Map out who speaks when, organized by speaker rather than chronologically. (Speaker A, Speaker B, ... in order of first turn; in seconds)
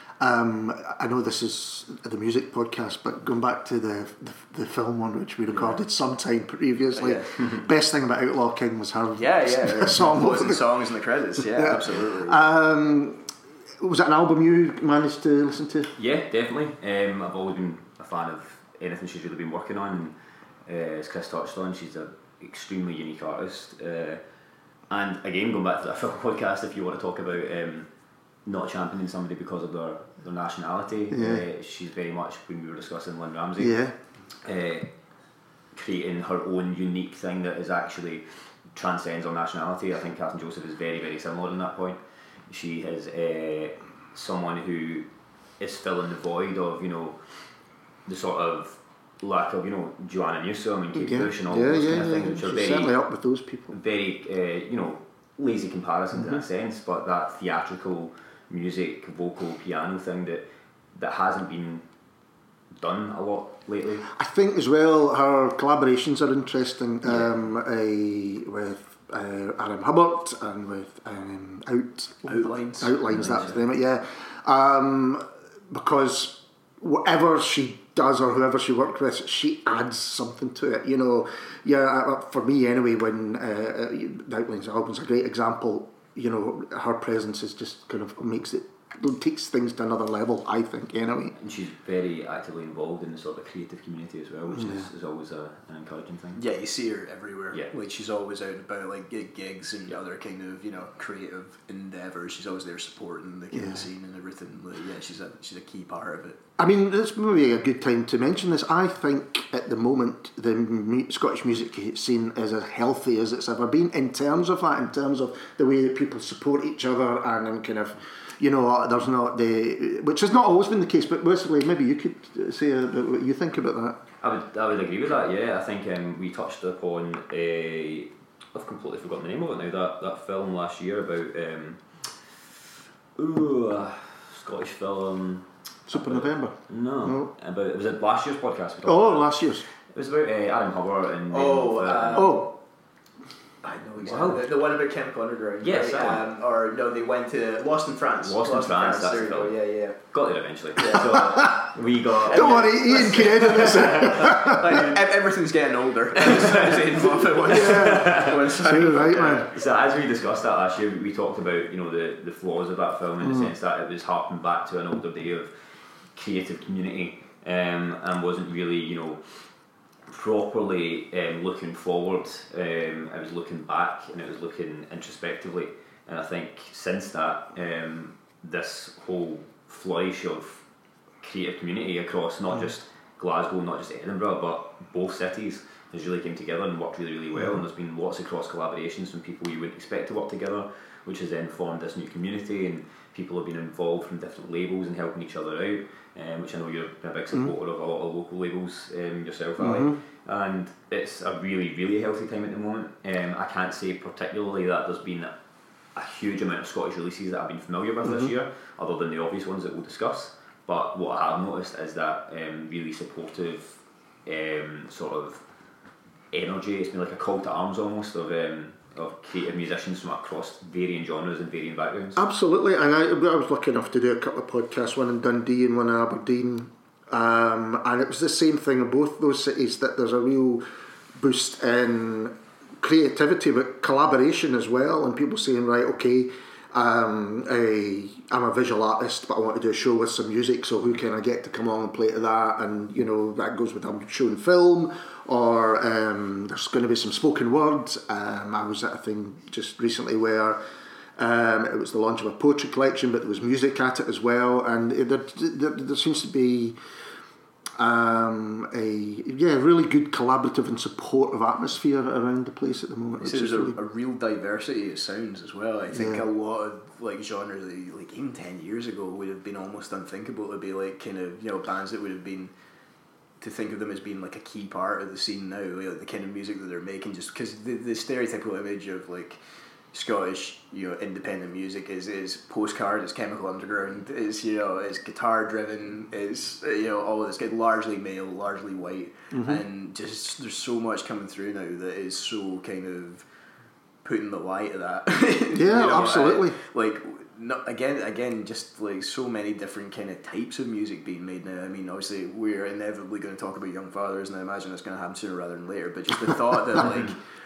Speaker A: 0.2-10.6, 11.4-13.3, 13.8-15.9, 31.1-31.4, 33.6-33.9, 50.9-53.8, 64.1-91.3, 94.5-94.9, 103.5-103.9, 106.6-124.0, 135.9-137.3, 138.8-139.6, 142.2-142.5, 152.3-154.9, 157.4-159.5, 163.2-163.5, 199.6-200.0, 208.0-208.3, 222.2-230.6, 231.2-250.6, 251.2-256.8, 257.8-263.8, 265.9-266.2, 289.3-289.6, 295.5-296.6
Speaker B: 5.5-5.8, 6.9-7.4, 9.2-12.4, 72.3-73.5, 96.4-106.4, 141.3-142.5, 143.6-150.0, 150.8-151.6, 152.3-159.5, 263.2-272.5, 273.4-279.4, 279.9-293.2, 294.0-307.2
Speaker C: 15.9-20.1, 20.6-24.2, 24.9-27.9, 28.4-33.8, 34.4-34.9, 35.7-45.1, 45.6-47.3, 48.0-52.9, 53.7-61.8, 62.8-64.1, 73.1-73.6, 91.3-96.4, 124.2-132.4, 133.2-142.4, 144.0-144.5, 145.6-146.2, 148.2-149.6, 150.1-154.8, 156.5-158.4, 159.3-165.5, 166.1-169.5, 170.1-180.6, 181.2-205.3, 205.9-215.4, 216.3-222.2